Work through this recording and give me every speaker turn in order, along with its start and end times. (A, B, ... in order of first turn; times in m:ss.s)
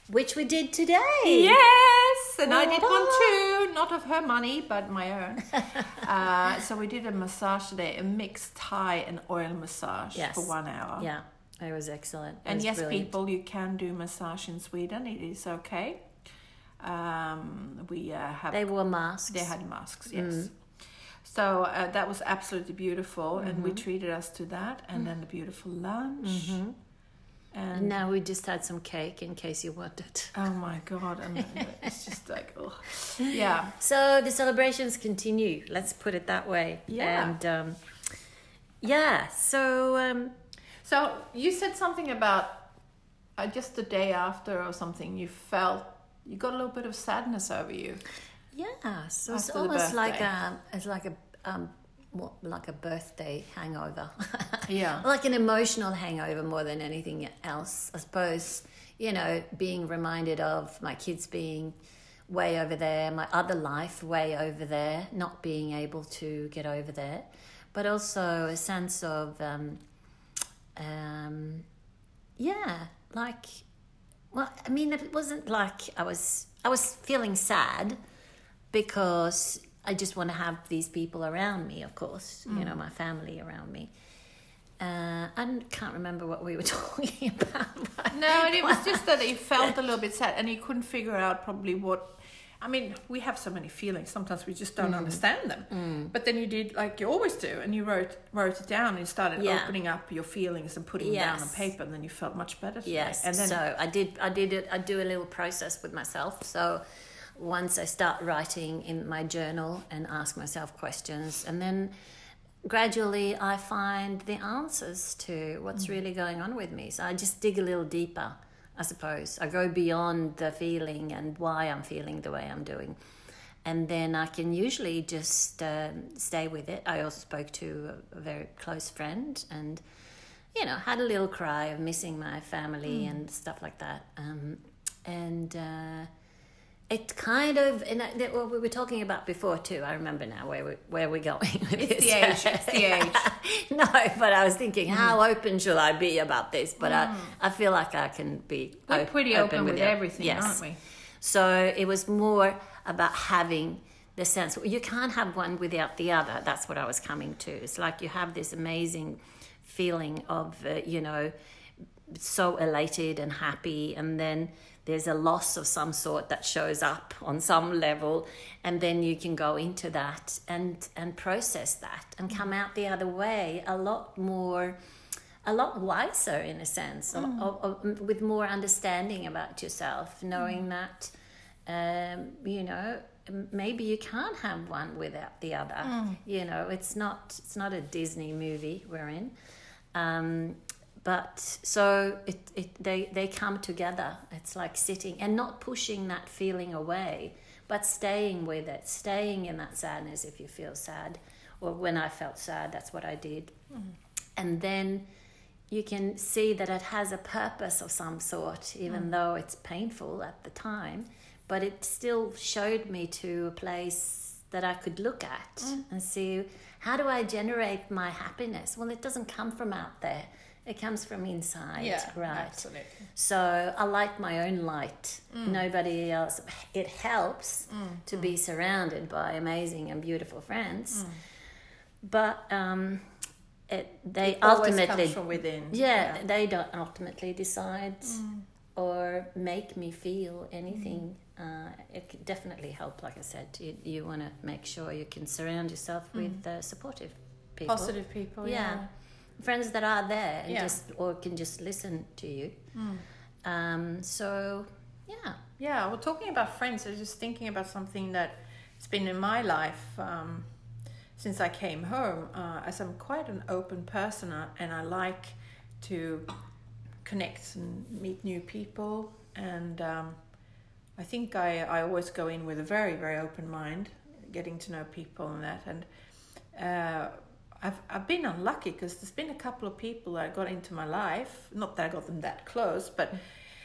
0:00.1-0:01.6 A
0:01.2-0:11.1 B
0:02.4-0:03.3 A
0:10.1-0:13.1 A
0:12.4-0:16.1 B
0:16.8-0:18.7 B
0:18.5-0:19.5 A
0:19.3-0:20.5 B
0:20.1-0:20.5 A
0:21.2-0:26.6 B
0:23.4-0:23.8 A
0:26.2-0:26.7 A
0:27.5-0:28.0 B
0:27.7-0:30.4 A
0:30.3-0:33.7 B
0:31.5-0:31.9 A
0:33.2-0:37.8 A
0:36.9-0:37.4 B
0:38.8-0:40.3 A
0:40.8-0:42.7 B
0:43.4-0:48.0 B
0:48.5-1:01.7 A
0:49.3-0:50.3 B
0:54.7-0:55.0 B
1:02.3-1:09.8 A
1:10.8-1:11.6 A
1:12.4-1:13.6 A
1:14.3-1:18.0 A
1:18.7-1:23.9 A
1:22.5-1:22.8 B
1:24.8-1:29.0 A
1:28.1-1:43.6 B
1:34.8-1:36.1 A
1:39.4-1:39.7 A
1:41.0-1:41.6 A
1:42.8-1:46.8 A
1:47.4-1:51.9 A
1:52.6-2:03.0 A
2:03.6-2:09.8 A
2:10.5-2:16.1 A
2:12.9-2:13.2 B
2:16.9-2:30.6 A
2:21.8-2:23.3 B
2:24.9-2:25.2 B
2:26.8-2:27.4 B
2:28.9-2:30.8 B
2:31.2-2:41.3 A
2:42.1-2:54.8 A
2:55.4-3:01.1 A
2:57.1-2:57.5 B
3:01.6-3:09.3 A
3:05.8-3:06.2 B
3:09.9-3:23.5 A
3:24.4-3:25.0 A
3:25.7-3:51.1 A
3:41.8-3:43.0 B
3:45.3-3:45.6 B
3:47.7-3:48.3 B
3:52.0-3:53.0 A
3:53.7-3:58.2 A
3:54.2-3:56.2 B
3:58.0-3:58.4 B
3:58.7-4:07.9 A
4:00.7-4:01.0 B
4:06.1-4:06.4 B
4:07.6-4:08.9 B
4:08.4-4:08.9 A
4:09.4-4:12.6 A
4:10.5-4:10.8 B
4:12.7-4:13.0 B
4:13.4-4:15.4 A
4:15.6-4:20.5 B
4:21.2-4:26.3 B
4:27.0-4:30.2 B
4:31.0-4:35.9 B
4:36.5-4:43.2 B